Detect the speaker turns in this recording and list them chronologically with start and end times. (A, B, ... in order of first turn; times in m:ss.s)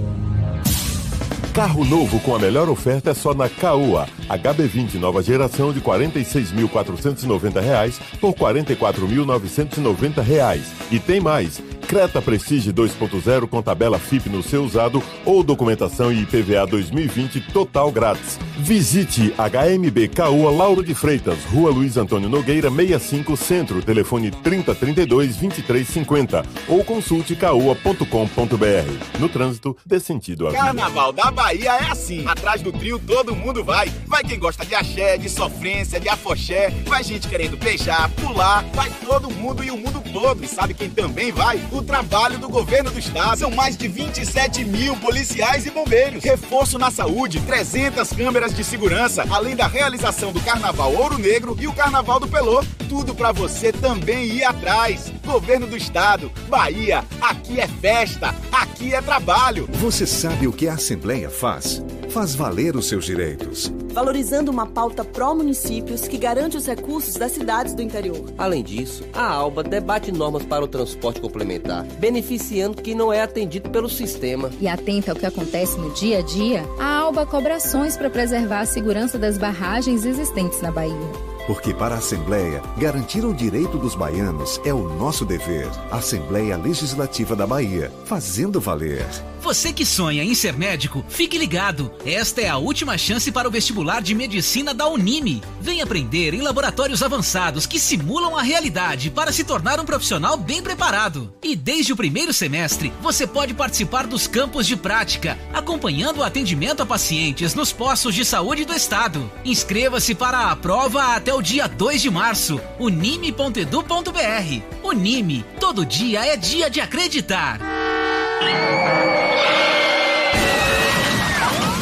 0:01.5-0:30.8 A
0:30.5-0:59.7 B
0:59.7-1:03.8 C
1:03.9-1:08.4 D
1:08.4-1:14.5 E
1:14.6-1:21.2 F
1:21.4-1:29.2 C
1:29.4-1:57.6 G